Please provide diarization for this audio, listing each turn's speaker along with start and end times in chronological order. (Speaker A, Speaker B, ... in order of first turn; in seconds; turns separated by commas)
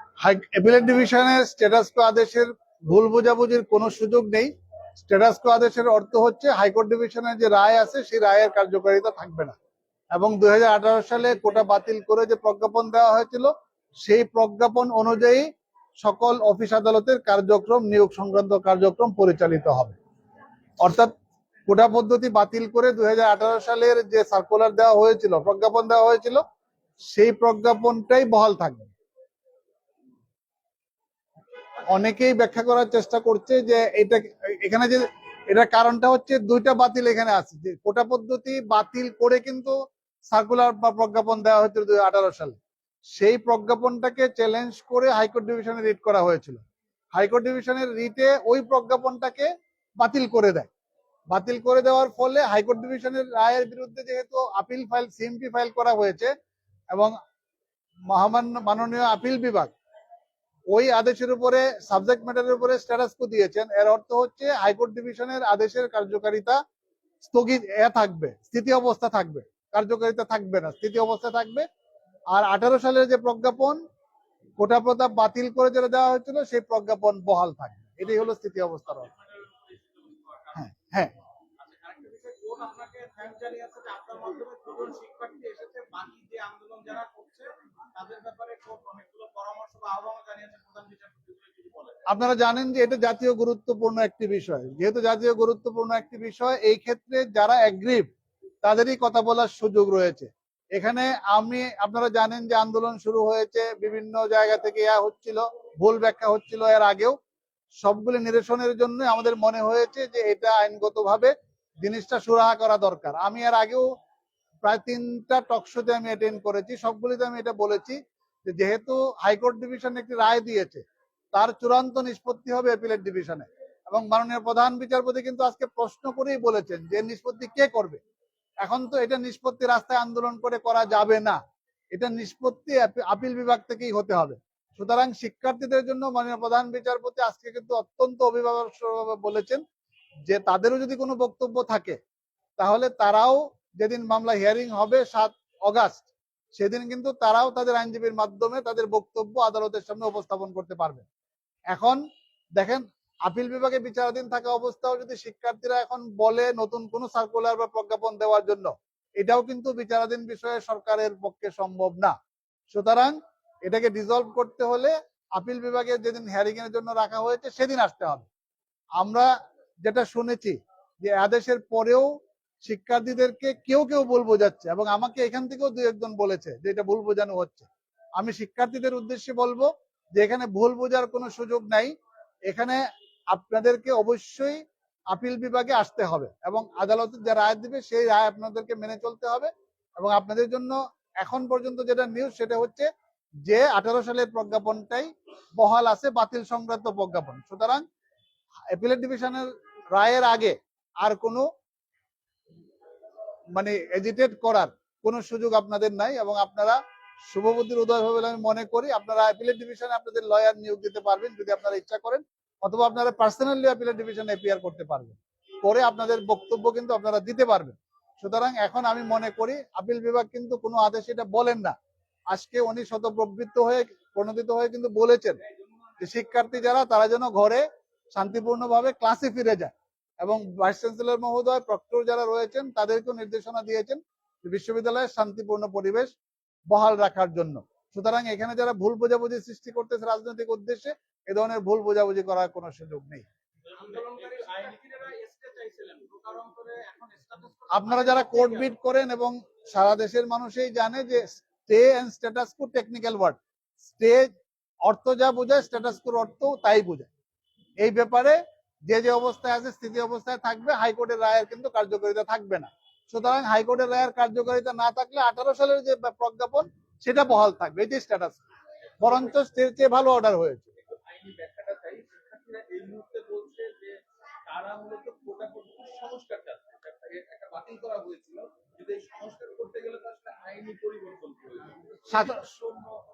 Speaker A: 0.2-4.5, Speaker A: 5.0-9.6, Speaker A: 10.1-15.5, Speaker A: 16.0-20.0, Speaker A: 20.8-21.1, Speaker A: 21.7-26.4, Speaker A: 27.1-28.9, Speaker A: 31.9-39.7, Speaker A: 40.3-42.6, Speaker A: 43.1-46.6, Speaker A: 47.1-50.7, Speaker A: 51.3-56.3, Speaker A: 58.1-59.7, Speaker A: 60.7-66.6, Speaker A: 67.2-71.7, Speaker A: 72.3-73.8, Speaker A: 74.6-79.1, Speaker B: 78.9-80.7, Speaker A: 80.6-81.1, Speaker B: 81.6-92.0, Speaker A: 92.1-98.1, Speaker A: 98.6-107.2, Speaker A: 107.8-113.8, Speaker A: 114.6-128.0, Speaker A: 128.6-131.4, Speaker A: 131.9-139.6, Speaker A: 140.3-142.0, Speaker A: 142.6-151.1, Speaker A: 151.7-152.0, Speaker A: 152.6-162.1, Speaker A: 162.7-168.3, Speaker A: 169.0-169.3, Speaker A: 169.8-172.1, Speaker A: 172.6-181.9, Speaker A: 182.5-192.9, Speaker A: 193.5-197.8, Speaker A: 198.7-201.5, Speaker A: 203.6-221.8, Speaker A: 222.3-225.4, Speaker B: 225.4-226.3, Speaker A: 226.0-236.1, Speaker A: 236.7-243.3, Speaker B: 243.7-248.7, Speaker A: 247.7-254.3, Speaker A: 254.8-257.1, Speaker A: 257.8-268.4, Speaker A: 269.0-270.7, Speaker B: 269.1-269.3, Speaker B: 270.8-282.9, Speaker A: 282.1-282.5